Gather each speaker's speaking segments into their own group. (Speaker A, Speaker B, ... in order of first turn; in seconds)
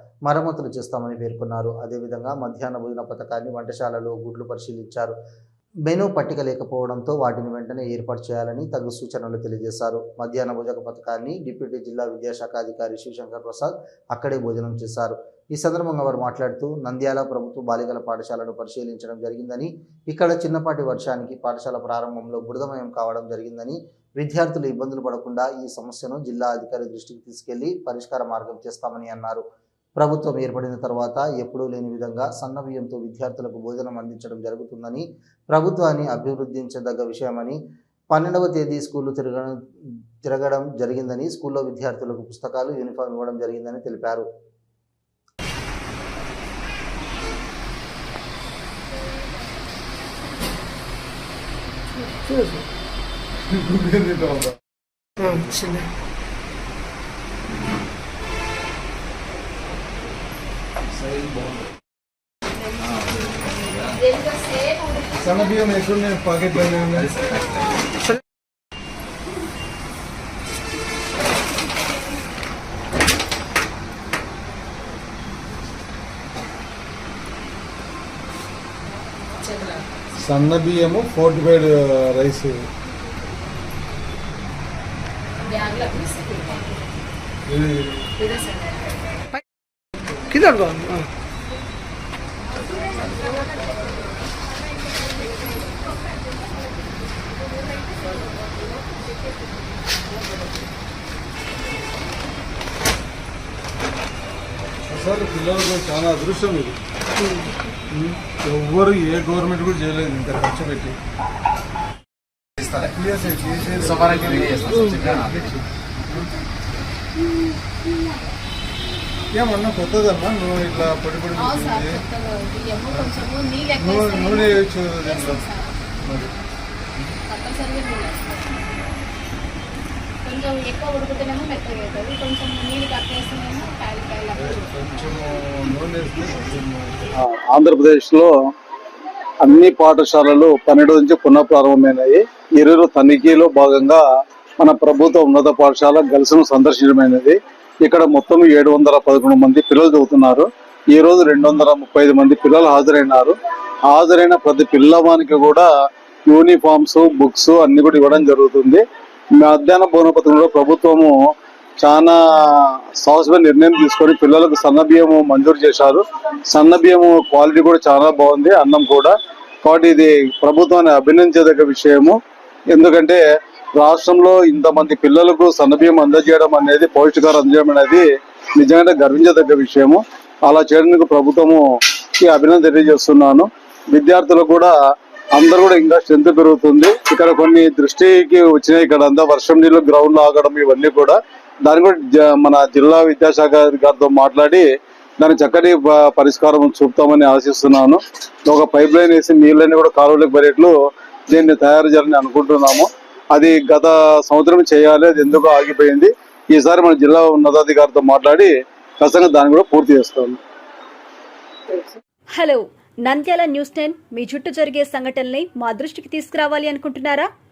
Speaker A: 0.3-5.1, 5.9-29.4, 30.0-37.6, 38.1-39.6, 40.2-44.2
Speaker B: 53.5-54.5, 65.2-67.2, 80.2-82.6, 87.5-88.0, 104.9-106.8, 107.9-111.0, 112.7-116.3, 119.3-122.0, 123.8-125.4, 126.0-126.3, 134.4-137.1
Speaker C: 63.9-65.4, 79.5-79.8, 85.4-86.8, 88.2-88.7, 121.4-125.7, 127.3-128.6, 130.2-134.7
Speaker D: 137.2-138.3, 139.4-144.0, 144.6-153.3, 153.9-155.7, 156.3-158.8, 159.4-161.1, 161.8-172.2, 172.7-173.2, 173.8-181.6, 182.2-184.7, 185.3-194.7, 195.2-200.7, 201.3-210.4
Speaker E: 212.3-217.3